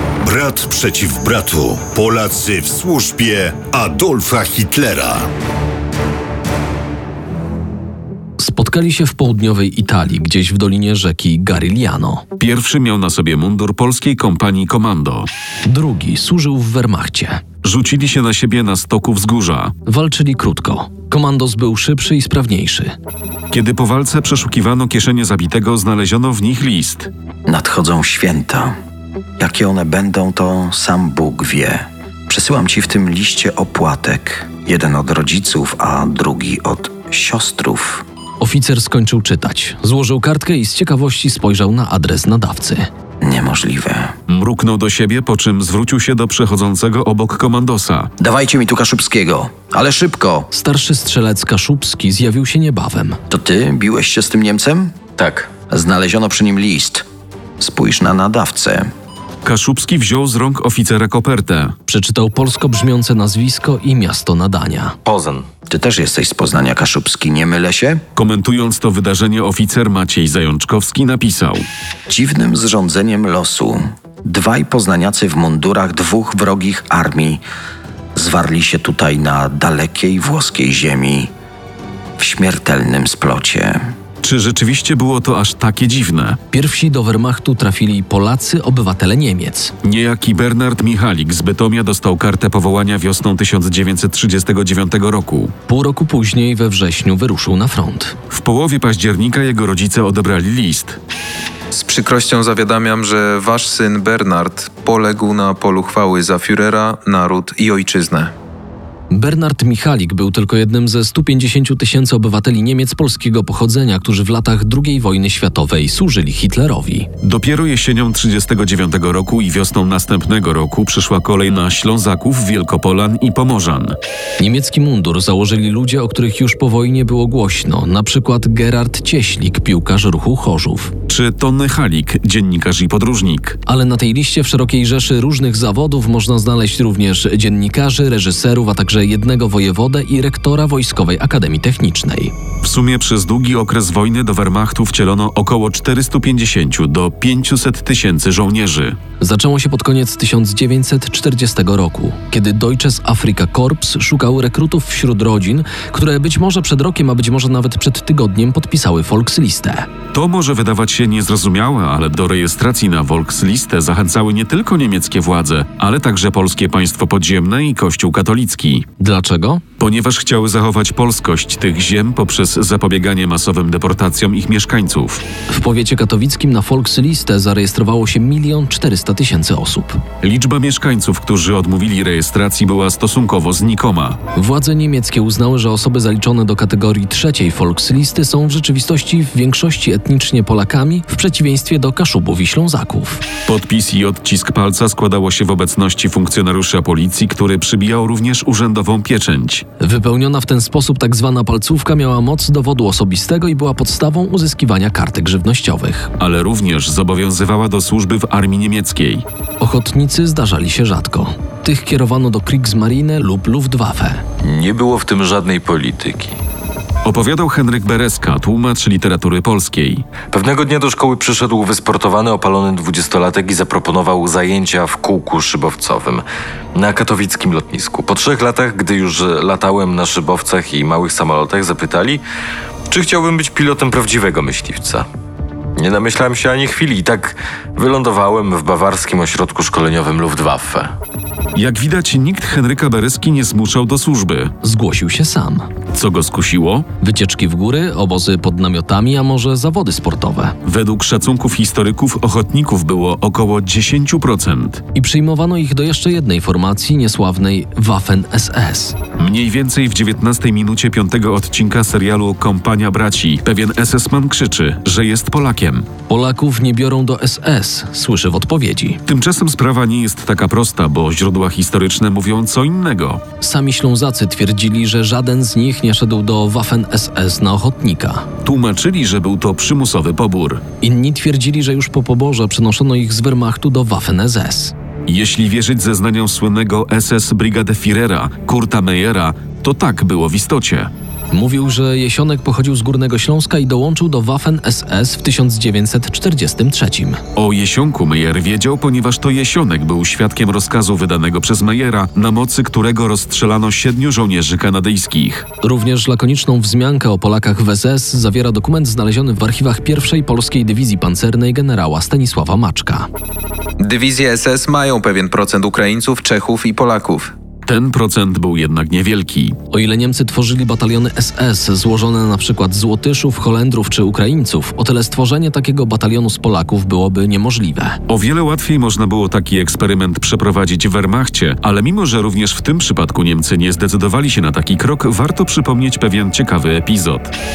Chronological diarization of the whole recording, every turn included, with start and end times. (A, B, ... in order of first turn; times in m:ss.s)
0:00.2-0:05.3 A
0:08.4-0:12.2 B
0:12.4-0:15.3 C
0:15.6-0:17.4 B
0:17.6-0:19.7 C
0:19.8-0:22.9 B
0:23.5-0:27.1 C
0:27.4-0:28.7 D
0:29.4-0:38.0 D
0:38.4-0:42.9 B
0:43.2-0:44.1 D
0:44.3-0:48.1 C
0:48.2-0:50.5 D
0:50.5-0:53.2 B
0:53.3-0:55.0 D
0:55.2-0:55.5 E
0:55.6-0:57.0 D
0:57.6-0:58.9 D
0:59.4-1:01.8 C
1:01.9-1:05.0 B
1:05.0-1:05.5 E
1:05.7-1:08.0 D
1:08.1-1:11.7 C
1:12.1-1:17.4 D
1:18.1-1:21.3 D
1:22.2-1:23.8 D
1:24.2-1:26.4 C
1:26.5-1:29.7 B
1:29.8-1:35.5 C
1:35.7-1:38.2 B
1:38.3-1:41.0 C
1:41.7-1:48.3 F
1:49.1-1:57.1 B
1:57.2-2:04.0 C
2:04.4-2:10.9 B
2:11.1-2:13.6 C
2:13.6-2:22.3 B
2:22.6-2:29.0 C
2:29.2-2:39.9 B
2:40.1-2:48.8 C
2:49.0-2:49.6 B
2:49.8-2:55.2 C
2:55.5-3:00.0 B
3:00.2-3:04.2 C
3:04.3-3:13.2 B
3:13.4-3:19.6 C
3:19.8-3:26.1 B
3:26.2-3:29.2 C
3:29.6-3:34.2 B
3:34.4-3:36.4 E
3:37.0-3:40.1 C
3:40.3-3:52.2 E
3:52.9-3:55.0 E
3:55.8-4:00.9 E
4:01.5-4:04.5 C
4:04.6-4:05.7 B
4:05.9-4:06.9 C
4:07.0-4:10.6 B
4:10.6-4:14.8 C
4:14.9-4:19.0 B
4:19.2-4:25.9 C
4:26.1-4:29.0 B
4:29.0-4:33.2 C
4:33.4-4:38.3 B
4:38.4-4:40.6 C
4:40.8-4:44.7 B
4:45.1-4:50.9 C
4:51.3-4:57.2 B
4:57.3-5:05.4 C
5:05.6-5:13.1 B
5:13.8-5:17.3 F
5:17.6-5:19.5 C
5:19.7-5:28.0 B
5:28.1-5:37.3 C